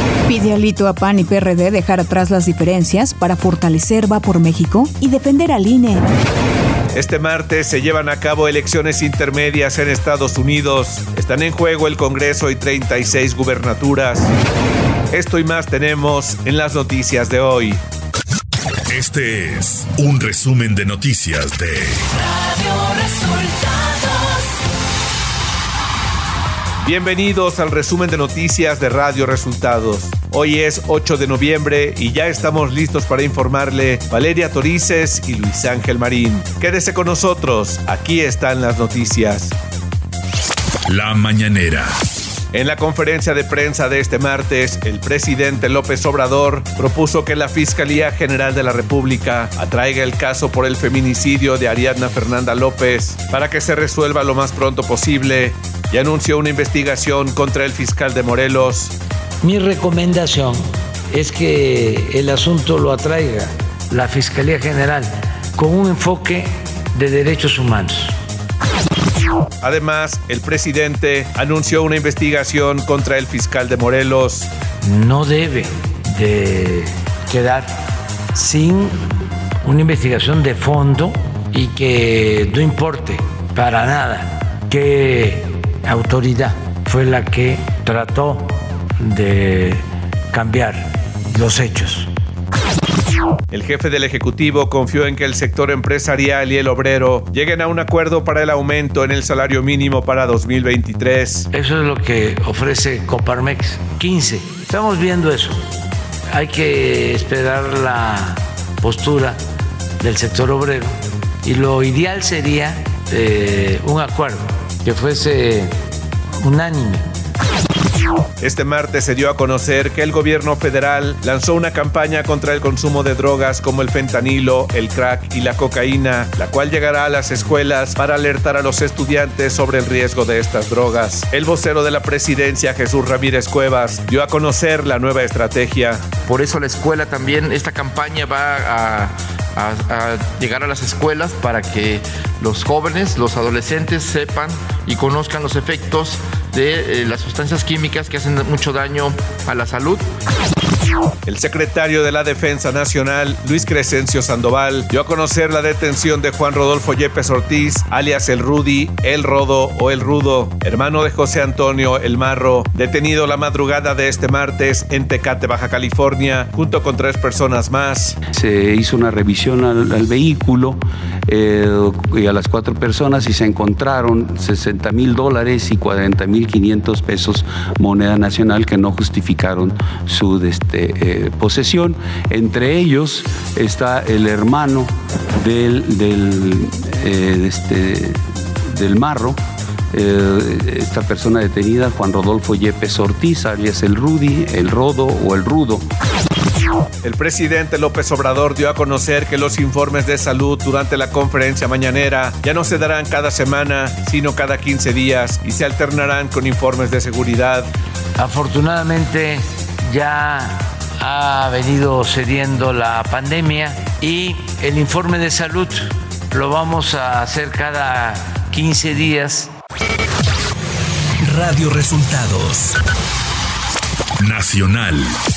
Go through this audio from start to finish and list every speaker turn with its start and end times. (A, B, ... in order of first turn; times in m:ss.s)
0:00.3-0:06.0 A
0:06.9-0:14.3 B
0:15.1-0:17.8 B
0:18.9-0:22.0 C
0:22.9-0:23.9 D
0:26.8-0:39.6 B
0:40.9-0:41.9 C
0:42.5-0:58.9 B
0:59.4-1:08.2 D
1:09.6-1:14.5 B
1:14.8-1:17.8 D
1:18.3-1:19.0 D
1:19.6-1:32.1 D
1:33.5-1:41.5 B
1:41.5-1:45.6 D
1:46.3-1:49.4 D
1:50.0-1:50.9 D
1:51.4-1:55.7 D
1:56.4-1:57.1 D
1:58.4-2:16.0 B
2:16.3-2:30.1 E
2:31.3-2:48.2 B
2:48.3-3:08.2 F
3:08.7-3:09.4 F
3:09.9-3:15.8 F
3:17.0-3:27.7 B
3:28.2-3:39.5 D
3:41.2-3:42.5 B
3:41.3-3:42.7 C
3:44.2-3:45.1 C